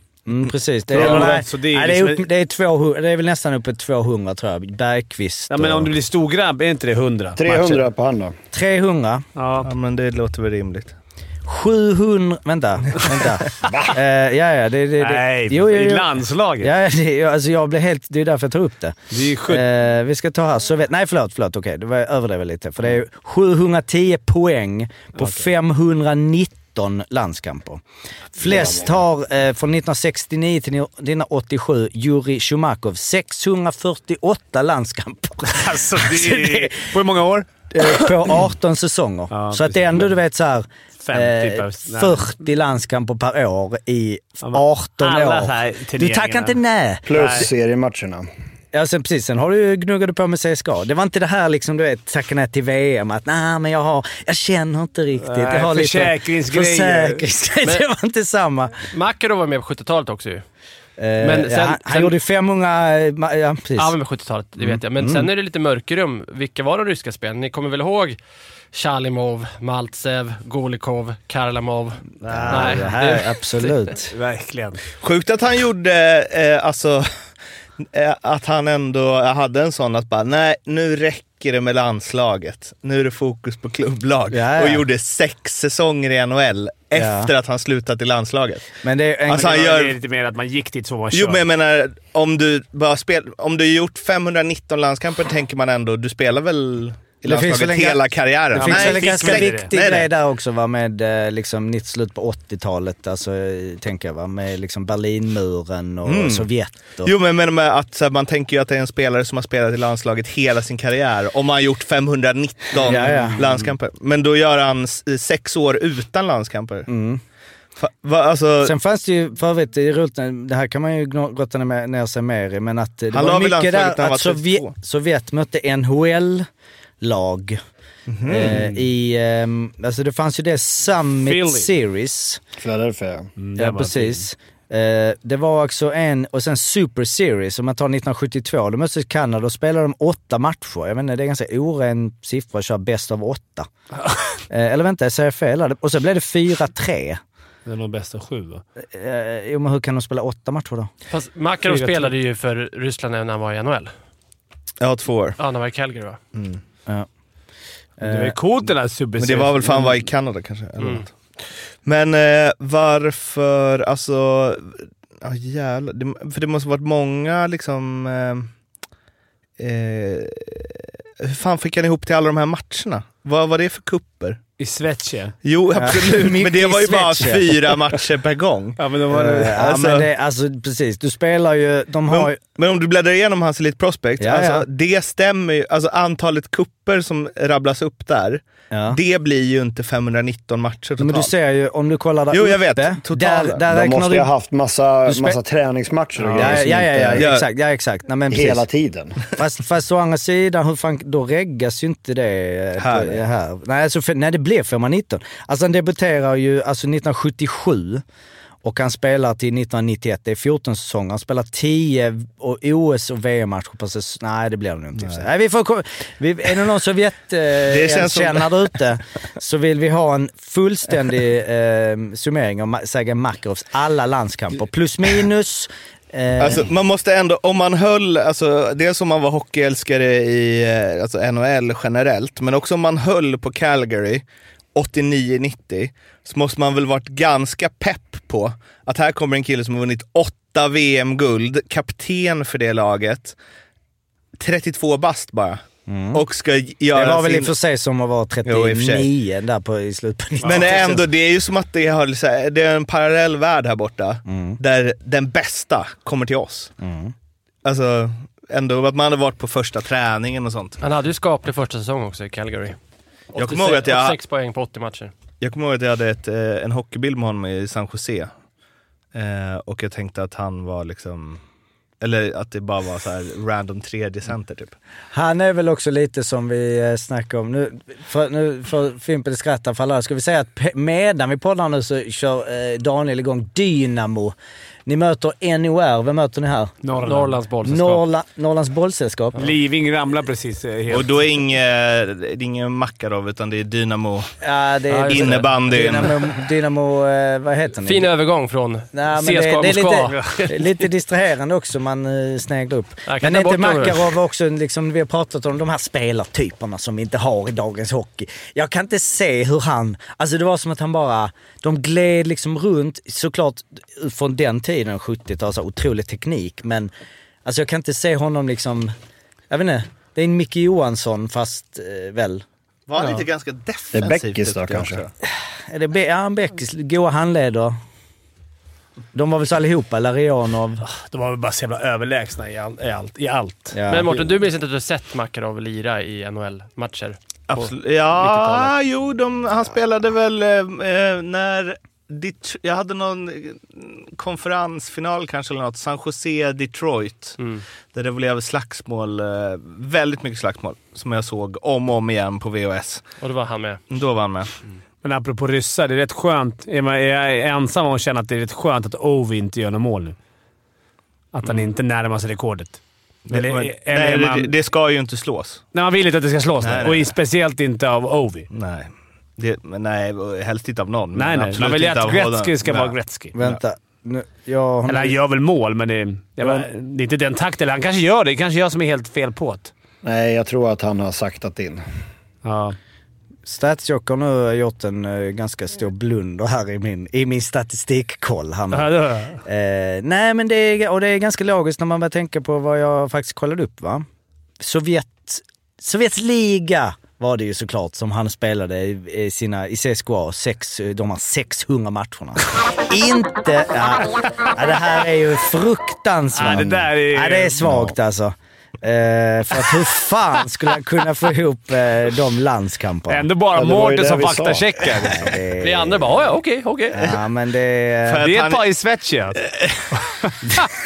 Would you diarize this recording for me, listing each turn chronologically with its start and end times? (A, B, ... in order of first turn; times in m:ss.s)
0:00.2-0:05.9 A
0:00.9-0:02.2 B
0:01.0-0:01.3 C
0:05.5-0:07.8 B
0:07.4-0:08.4 C
0:08.5-0:09.2 A
0:09.4-0:09.7 B
0:09.6-0:10.9 D
0:11.4-0:16.1 A
0:13.7-0:13.9 C
0:15.0-0:16.7 B
0:16.6-0:19.0 A
0:19.1-0:19.6 B
0:19.5-0:27.8 A
0:25.2-0:25.4 B
0:28.4-0:36.9 A
0:28.5-0:28.9 C
0:35.4-0:38.4 B
0:37.7-0:47.1 A
0:39.3-0:40.1 B
0:41.0-0:42.3 B
0:44.4-0:46.6 B
0:47.0-0:48.3 C
0:47.1-0:47.5 B
0:48.7-0:58.8 A
0:55.2-0:57.2 B
0:58.9-1:00.4 E
1:01.0-1:03.9 A
1:01.2-1:02.1 E
1:03.8-1:08.2 E
1:04.6-1:05.3 A
1:08.7-1:13.7 E
1:12.2-1:14.1 A
1:12.3-1:12.8 B
1:14.1-1:14.8 B
1:15.0-1:17.1 D
1:17.8-1:28.6 D
1:24.3-1:24.8 A
1:26.9-1:27.3 A
1:28.8-1:29.5 A
1:29.3-1:30.0 D
1:29.3-1:31.4 B
1:31.1-1:40.1 D
1:37.2-1:47.1 A
1:38.5-1:39.7 B
1:46.0-1:46.5 D
1:47.0-1:56.9 D
1:52.8-1:53.4 A
1:56.9-1:57.2 A
1:57.8-1:58.7 D
1:58.6-2:06.5 A
2:03.1-2:04.7 D
2:07.0-2:07.6 A
2:08.1-2:08.6 D
2:08.2-2:12.4 A
2:11.2-2:11.7 B
2:12.6-2:13.3 C
2:13.4-2:14.2 B
2:13.6-2:23.7 A
2:24.5-2:27.2 A
2:27.6-2:28.6 B
2:28.8-2:30.9 A
2:31.1-2:33.9 E
2:31.6-2:32.1 B
2:34.8-2:35.4 D
2:35.4-2:36.2 E
2:36.3-2:36.6 D
2:38.0-2:38.3 A
2:38.0-2:40.0 B
2:39.2-2:41.1 D
2:41.8-2:48.5 D
2:49.6-2:54.4 D
2:54.6-2:55.4 B
2:55.4-2:58.8 D
2:55.7-2:57.7 A
2:58.8-2:59.6 B
2:59.1-3:02.4 A
2:59.4-3:00.1 D
3:02.1-3:11.3 D
3:04.2-3:04.6 A
3:08.7-3:09.0 A
3:11.0-3:14.3 A
3:12.3-3:13.6 D
3:13.6-3:17.3 C
3:15.1-3:15.4 A
3:16.3-3:18.7 A
3:17.2-3:17.4 D
3:18.3-3:19.2 C
3:19.3-3:28.0 A
3:22.8-3:23.2 D
3:28.6-3:46.6 A
3:35.0-3:35.2 D
3:37.6-3:38.7 D
3:46.4-4:03.4 D
4:04.4-4:07.5 D
4:05.9-4:06.2 A
4:06.9-4:11.0 A
4:08.4-4:09.1 D
4:10.4-4:10.8 B
4:10.4-4:16.7 D
4:14.3-4:14.6 A
4:16.8-4:17.1 A
4:17.6-4:20.8 D
4:20.8-4:22.8 E
4:23.3-4:25.1 E
4:23.4-4:24.2 D
4:25.4-4:28.3 D
4:29.1-4:31.4 D
4:32.0-4:34.7 D
4:35.1-4:44.3 A
4:44.8-4:46.7 A
4:46.8-4:47.4 B
4:47.0-4:48.0 E
4:47.6-4:49.4 A
4:49.4-4:51.1 B
4:50.9-4:54.3 D
4:54.4-4:58.1 A
4:54.9-4:55.5 E
4:55.1-4:56.3 D
4:57.8-5:00.6 E
4:58.9-5:16.9 A
5:03.1-5:04.1 E
5:17.4-5:18.9 A
5:19.5-5:22.4 A
5:22.9-5:25.1 D
5:23.9-5:25.0 C
5:25.7-5:27.8 A
5:29.1-5:30.8 A
5:30.8-5:33.8 B
5:33.7-5:34.2 A
5:33.9-5:38.7 E
5:37.5-5:47.4 D
5:47.9-5:53.0 D
5:53.2-5:53.8 E
5:53.9-5:54.5 D
5:55.0-6:00.2 B
6:01.3-6:04.5 B
6:03.3-6:05.6 D
6:05.7-6:08.5 B
6:06.6-6:07.1 D
6:08.5-6:13.6 D
6:11.1-6:13.3 B
6:13.3-6:15.2 A
6:14.9-6:19.7 B
6:20.0-6:21.8 C
6:22.4-6:22.8 B
6:23.4-6:34.0 A
6:28.7-6:29.4 B
6:34.6-6:53.2 A
6:46.3-6:47.9 B
6:46.4-6:46.8 C
6:53.1-6:55.3 B
6:53.5-6:54.7 C
6:55.0-6:56.0 A
6:55.6-6:57.1 E
6:56.9-6:58.2 A
6:58.0-6:58.6 D
6:58.2-6:59.4 B
6:59.4-6:59.8 D
7:00.0-7:00.3 B